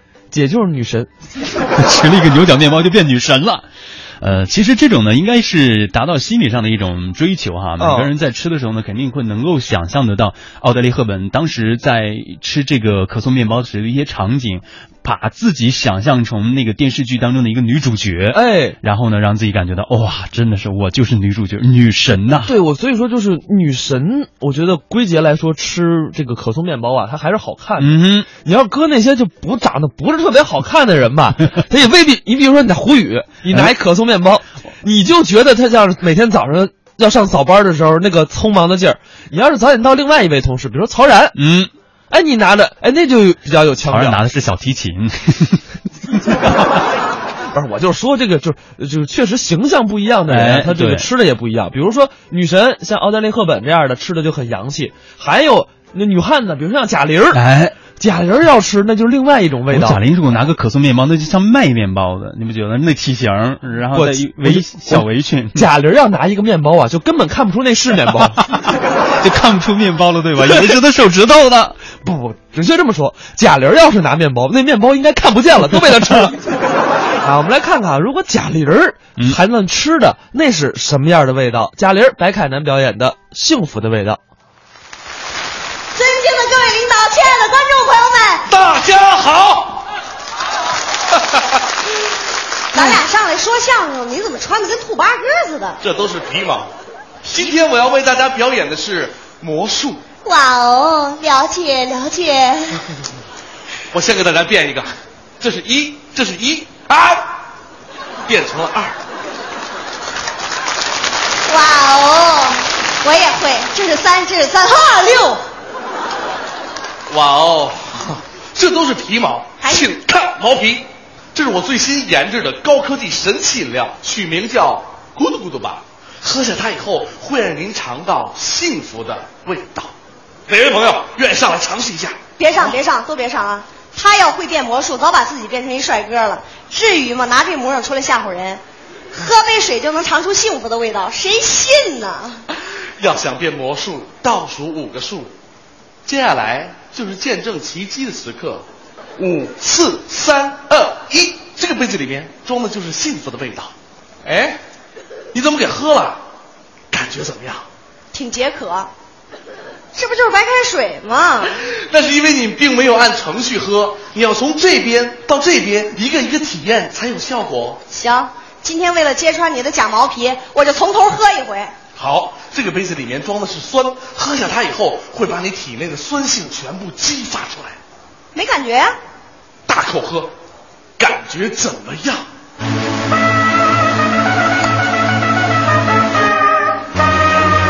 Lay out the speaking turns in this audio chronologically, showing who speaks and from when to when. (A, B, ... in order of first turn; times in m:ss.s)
0:00.3-0:01.1 A
0:01.7-0:03.6 B
0:04.2-0:22.5 B
0:07.8-0:08.1 A
0:18.3-0:18.8 A
0:22.4-0:41.4 A
0:27.8-0:28.3 B
0:41.3-0:41.7 B
0:42.1-0:44.2 A
0:43.9-0:45.6 B
0:47.5-0:57.4 A
0:50.3-0:51.1 B
0:57.3-0:57.8 B
0:58.0-1:00.0 A
0:59.7-1:05.7 B
1:03.9-1:08.5 A
1:08.8-1:11.8 B
1:11.9-1:16.4 A
1:17.2-1:24.2 A
1:25.9-1:28.5 C
1:28.5-1:29.8 D
1:32.7-1:35.8 C
1:35.8-1:36.7 D
1:37.2-1:37.5 C
1:37.3-1:40.0 D
1:40.2-1:42.9 C
1:43.9-1:47.3 D
1:48.2-1:49.0 D
1:51.5-1:55.4 C
1:57.1-2:09.9 D
2:10.5-2:12.8 D
2:12.4-2:18.6 C
2:19.1-2:22.4 C
2:23.0-2:25.3 D
2:26.0-2:28.6 D
2:29.2-2:33.7 D
2:34.2-2:34.6 D
2:35.3-2:36.2 D
2:36.9-2:37.6 D
2:38.1-2:38.9 C
2:39.9-2:41.5 C
2:41.5-2:47.8 D
2:47.9-2:51.7 C
2:52.0-2:57.8 D
2:58.3-2:58.9 C
2:59.7-3:00.3 D
3:01.0-3:02.2 D